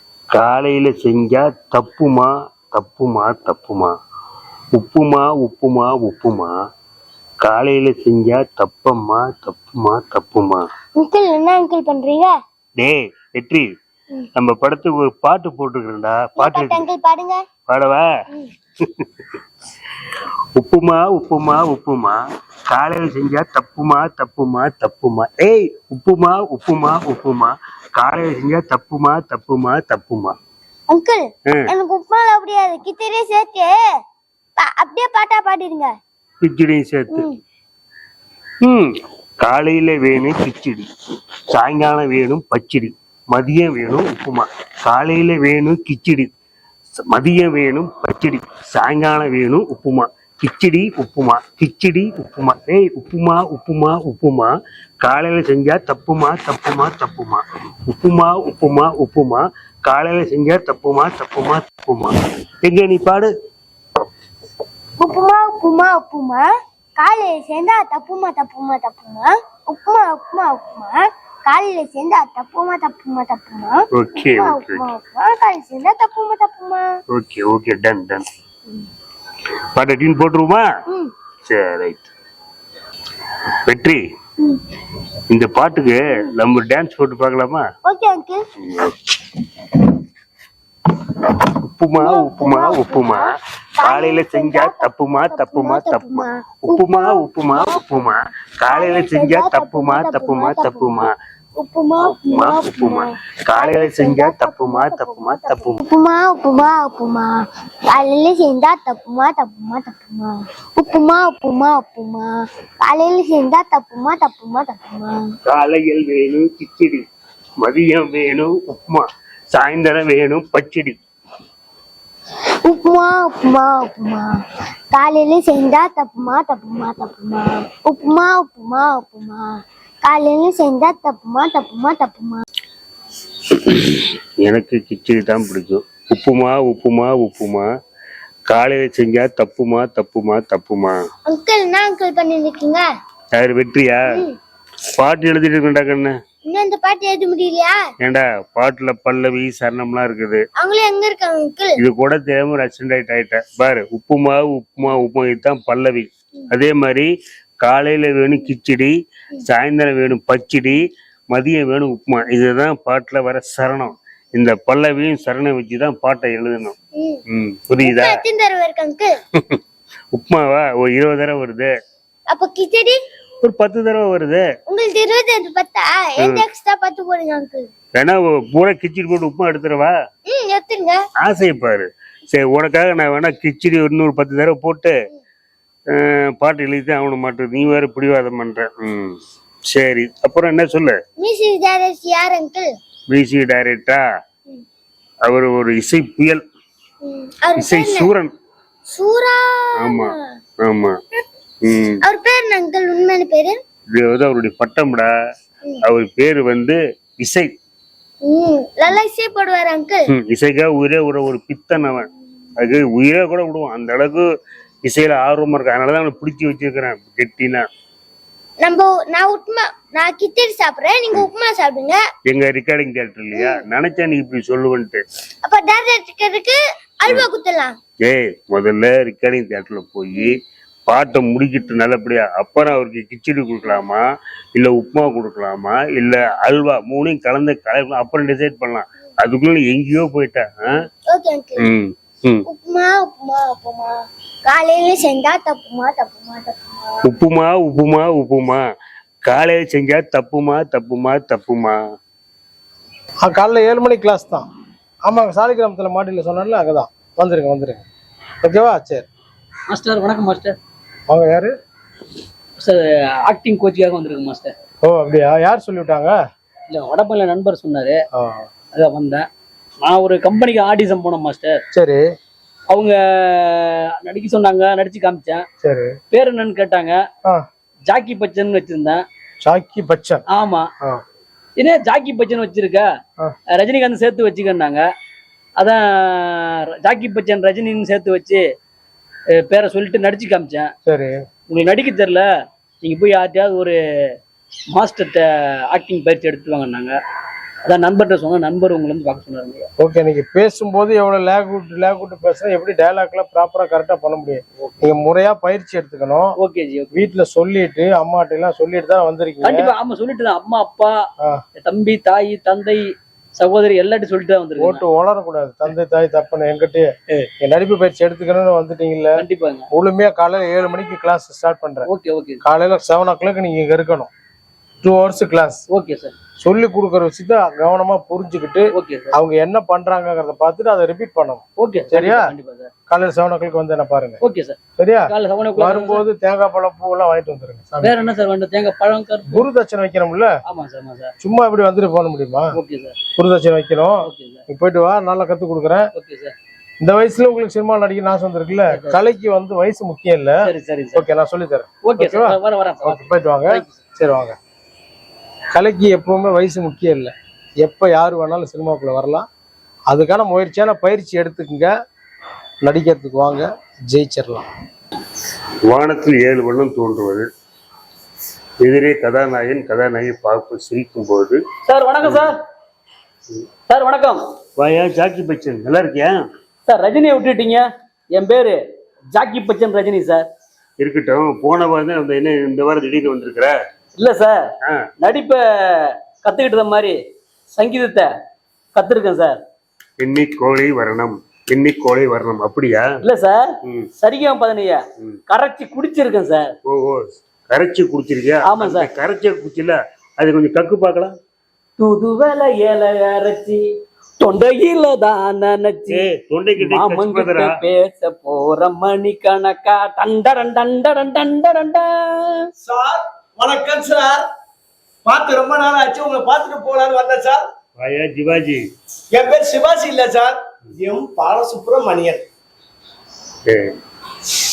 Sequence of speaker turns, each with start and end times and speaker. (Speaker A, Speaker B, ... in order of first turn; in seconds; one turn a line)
Speaker A: 0.3-3.9
Speaker A: 4.7-6.5
Speaker A: 7.4-10.6
Speaker B: 11.0-12.3
Speaker A: 12.8-13.7
Speaker A: 14.4-16.8
Speaker B: 16.4-17.4
Speaker A: 17.7-18.1
Speaker A: 20.6-22.2
Speaker A: 22.7-30.4
Speaker B: 30.9-33.7
Speaker B: 34.6-35.9
Speaker A: 36.4-37.3
Speaker B: 37.1-37.4
Speaker A: 38.6-40.9
Speaker A: 41.5-46.3
Speaker A: 47.1-54.5
Speaker A: 55.0-63.3
Speaker B: 65.0-66.5
Speaker B: 67.0-76.9
Speaker A: 74.0-74.9
Speaker A: 77.1-78.2
Speaker A: 79.7-80.7
Speaker A: 81.5-82.1
Speaker A: 83.7-84.0
Speaker A: 85.3-87.7
Speaker B: 87.8-88.4
Speaker A: 88.6-89.0
Speaker A: 91.8-101.1
Speaker B: 92.0-98.1
Speaker B: 98.7-101.0
Speaker B: 101.6-107.3
Speaker A: 102.0-105.8
Speaker B: 107.9-112.3
Speaker B: 112.8-115.2
Speaker A: 115.5-117.0
Speaker A: 117.6-121.0
Speaker B: 122.7-124.3
Speaker B: 124.9-129.4
Speaker B: 130.0-132.4
Speaker A: 134.4-137.7
Speaker A: 138.5-141.0
Speaker B: 141.3-142.8
Speaker A: 143.4-144.2
Speaker B: 144.1-144.4
Speaker A: 145.0-146.1
Speaker B: 146.5-147.8
Speaker A: 148.0-150.4
Speaker B: 150.6-151.8
Speaker A: 151.8-157.1
Speaker A: 157.6-158.9
Speaker A: 159.4-166.8
Speaker B: 167.0-167.2
Speaker A: 167.3-168.2
Speaker B: 167.8-169.1
Speaker A: 170.1-171.7
Speaker B: 172.3-173.0
Speaker A: 173.4-174.4
Speaker B: 174.7-177.7
Speaker A: 178.0-179.9
Speaker B: 180.3-181.0
Speaker A: 181.2-184.9
Speaker A: 186.4-189.2
Speaker A: 189.7-191.0
Speaker B: 191.2-192.7
Speaker A: 193.1-194.0
Speaker A: 195.3-196.4
Speaker B: 197.0-198.1
Speaker A: 197.6-198.3
Speaker B: 198.9-200.3
Speaker A: 199.8-201.0
Speaker A: 201.6-202.0
Speaker B: 202.1-203.6
Speaker A: 204.0-205.1
Speaker A: 205.8-207.5
Speaker B: 208.2-210.0
Speaker A: 210.1-212.1
Speaker A: 212.6-214.2
Speaker A: 214.8-217.7
Speaker B: 218.6-222.0
Speaker A: 222.3-225.0
Speaker B: 223.3-223.6
Speaker B: 225.4-227.8
Speaker A: 228.0-234.0
Speaker A: 234.6-240.5
Speaker B: 241.1-241.7
Speaker A: 241.6-242.4
Speaker B: 242.5-243.9
Speaker B: 244.5-247.0
Speaker A: 247.1-248.6
Speaker A: 249.3-251.8
Speaker C: 253.2-254.5
Speaker C: 255.1-257.9
Speaker C: 258.4-259.1
Speaker D: 259.7-260.6
Speaker C: 261.1-261.5
Speaker D: 262.6-264.5
Speaker C: 264.8-266.1
Speaker D: 266.7-268.0
Speaker C: 268.1-268.5
Speaker D: 268.8-269.3
Speaker D: 269.8-271.6
Speaker C: 271.7-272.0
Speaker D: 272.7-275.4
Speaker C: 275.6-275.9
Speaker D: 276.1-277.0
Speaker D: 277.9-279.0
Speaker C: 279.4-280.2
Speaker D: 280.3-280.7
Speaker D: 281.6-282.9
Speaker D: 283.5-284.8
Speaker D: 285.6-288.4
Speaker D: 289.4-290.7
Speaker C: 290.9-291.2
Speaker D: 291.5-292.2
Speaker D: 292.8-293.8
Speaker D: 294.7-297.0
Speaker D: 297.7-299.7
Speaker C: 299.8-306.3
Speaker D: 306.4-307.0
Speaker C: 306.9-309.7
Speaker D: 309.4-310.9
Speaker D: 311.6-312.8
Speaker D: 313.4-314.8
Speaker C: 314.6-319.1
Speaker D: 319.2-319.7
Speaker C: 319.7-321.9
Speaker D: 321.9-322.4
Speaker C: 322.4-324.1
Speaker C: 324.8-325.6
Speaker D: 325.7-326.1
Speaker C: 326.4-332.3
Speaker D: 328.7-329.1
Speaker D: 331.6-332.7
Speaker C: 332.9-334.2
Speaker D: 334.2-334.6
Speaker C: 334.8-337.9
Speaker D: 335.1-336.0
Speaker D: 337.8-339.5
Speaker C: 339.3-340.3
Speaker D: 340.5-341.1
Speaker C: 341.2-342.5
Speaker D: 342.6-343.0
Speaker C: 343.2-345.9
Speaker D: 344.1-344.4
Speaker D: 345.9-346.3
Speaker C: 346.8-350.4
Speaker D: 348.7-349.0
Speaker D: 350.4-351.1
Speaker C: 350.9-354.4
Speaker D: 351.9-353.7
Speaker C: 355.5-359.3
Speaker C: 359.9-361.7
Speaker C: 362.6-364.4
Speaker A: 365.7-367.3
Speaker A: 368.6-371.4
Speaker D: 371.7-372.4
Speaker A: 372.0-372.3
Speaker D: 373.7-374.2
Speaker A: 374.6-376.2
Speaker D: 376.7-378.6
Speaker D: 379.1-380.3
Speaker A: 380.8-383.5
Speaker D: 384.0-387.0
Speaker D: 387.5-388.1
Speaker D: 388.8-389.4
Speaker A: 390.0-392.9
Speaker D: 393.0-396.5
Speaker A: 396.7-401.1
Speaker D: 398.5-398.9
Speaker D: 401.8-403.6
Speaker D: 404.2-406.1
Speaker A: 405.9-407.5
Speaker D: 406.6-412.4
Speaker E: 412.6-414.2
Speaker E: 415.1-417.5
Speaker A: 417.8-418.6
Speaker E: 419.1-422.2